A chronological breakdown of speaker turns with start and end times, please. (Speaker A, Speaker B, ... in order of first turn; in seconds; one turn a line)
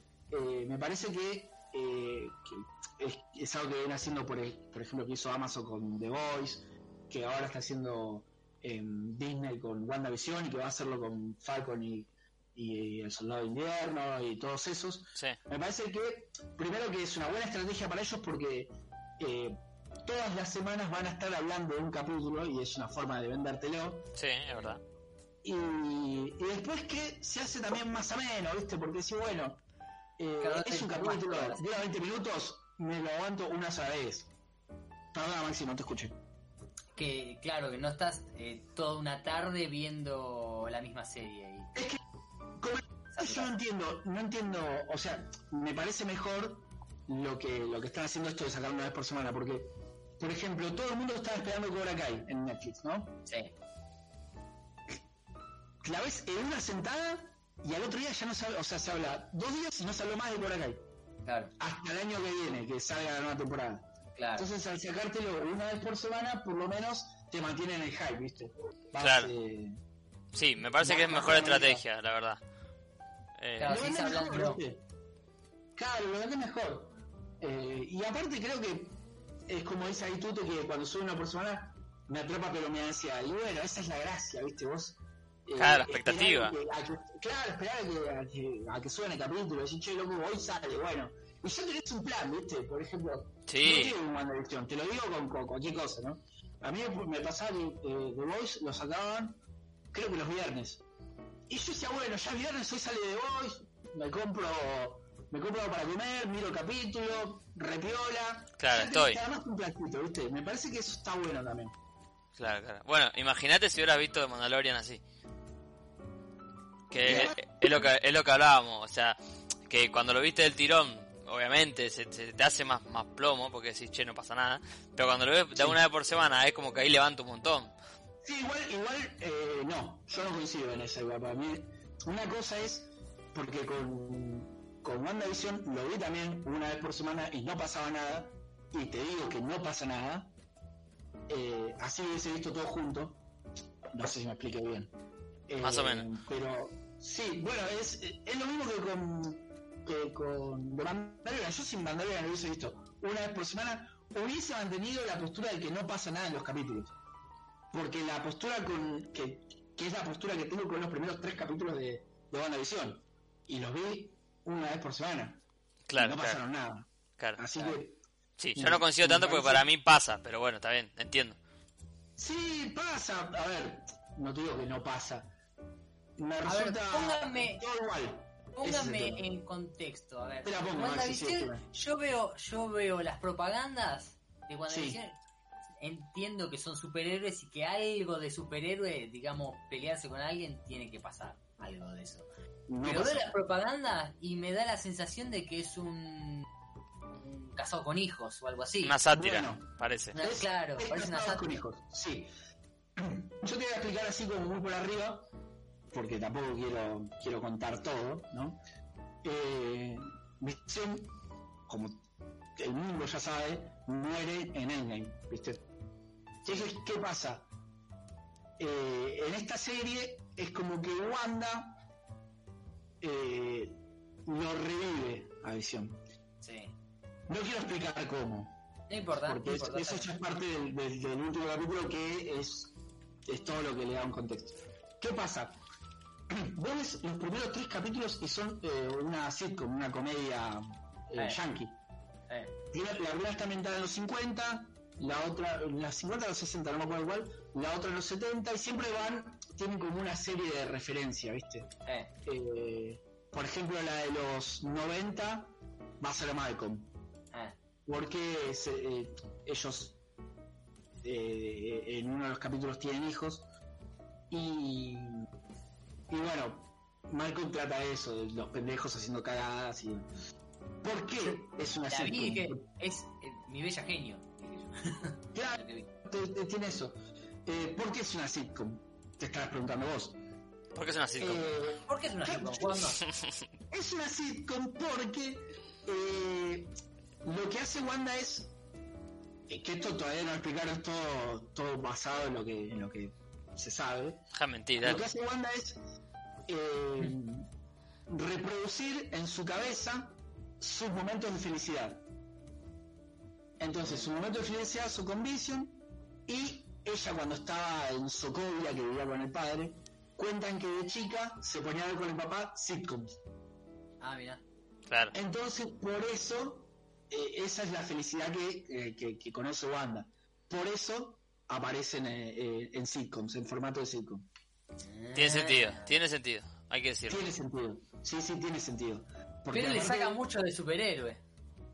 Speaker A: 0.3-24.1
Speaker B: 24.1-24.8
Speaker A: 25.4-29.6
Speaker A: 30.2-34.3
Speaker C: 30.4-31.7
Speaker A: 35.1-36.2
Speaker C: 37.0-41.8
Speaker A: 41.7-42.0
Speaker A: 42.6-53.2
Speaker C: 43.1-43.5
Speaker C: 53.3-53.5
Speaker A: 55.8-60.8
Speaker C: 61.2-61.5
Speaker A: 61.6-69.8
Speaker C: 64.2-64.5
Speaker B: 69.0-69.3
Speaker B: 70.3-72.4
Speaker A: 70.8-71.8
Speaker B: 73.4-73.7
Speaker C: 73.6-74.6
Speaker A: 73.6-74.8
Speaker A: 75.7-99.4
Speaker B: 85.6-86.5
Speaker B: 93.5-93.9
Speaker A: 99.9-100.8
Speaker A: 101.5-111.8
Speaker B: 108.6-109.2
Speaker B: 112.4-115.0
Speaker B: 116.9-119.2
Speaker A: 117.0-117.9
Speaker B: 119.7-127.7
Speaker A: 128.2-140.3
Speaker A: 141.3-143.2
Speaker A: 143.9-144.9
Speaker A: 145.5-156.9
Speaker B: 145.6-146.1
Speaker A: 157.7-165.4
Speaker B: 165.9-166.4
Speaker A: 165.9-168.0
Speaker B: 168.4-171.4
Speaker A: 168.6-169.7
Speaker A: 172.2-175.3
Speaker A: 176.2-179.2
Speaker C: 176.4-177.6
Speaker C: 178.6-185.2
Speaker A: 180.4-181.6
Speaker A: 184.7-185.0
Speaker C: 185.8-192.3
Speaker A: 192.7-193.3
Speaker C: 192.8-196.5
Speaker C: 197.1-199.0
Speaker B: 198.8-200.2
Speaker A: 199.1-202.3
Speaker C: 200.1-201.6
Speaker A: 203.0-205.3
Speaker A: 205.9-208.6
Speaker A: 209.2-212.0
Speaker A: 212.6-215.6
Speaker A: 216.4-217.5
Speaker A: 218.6-221.8
Speaker A: 223.0-226.0
Speaker C: 226.4-226.7
Speaker A: 227.3-228.6
Speaker C: 228.9-230.1
Speaker A: 229.2-232.7
Speaker A: 233.2-235.6
Speaker A: 236.3-241.8
Speaker C: 242.3-242.5
Speaker A: 242.7-251.7
Speaker C: 251.9-252.1
Speaker A: 252.2-256.9
Speaker A: 257.9-260.0
Speaker A: 261.0-263.4
Speaker A: 264.3-265.3
Speaker A: 266.1-270.1
Speaker A: 270.8-272.6
Speaker C: 271.9-275.9
Speaker A: 275.3-280.2
Speaker B: 280.7-281.5
Speaker A: 281.2-282.9
Speaker C: 281.9-283.0
Speaker B: 283.0-283.4
Speaker A: 283.7-288.5
Speaker A: 289.5-294.2
Speaker B: 294.3-295.0
Speaker A: 294.8-295.8
Speaker A: 296.5-297.5
Speaker A: 298.1-302.0
Speaker A: 303.6-313.2
Speaker C: 314.0-314.4
Speaker B: 314.9-315.1
Speaker A: 315.1-324.2
Speaker C: 324.8-325.9
Speaker B: 325.1-327.2
Speaker A: 327.1-330.2
Speaker C: 329.5-331.2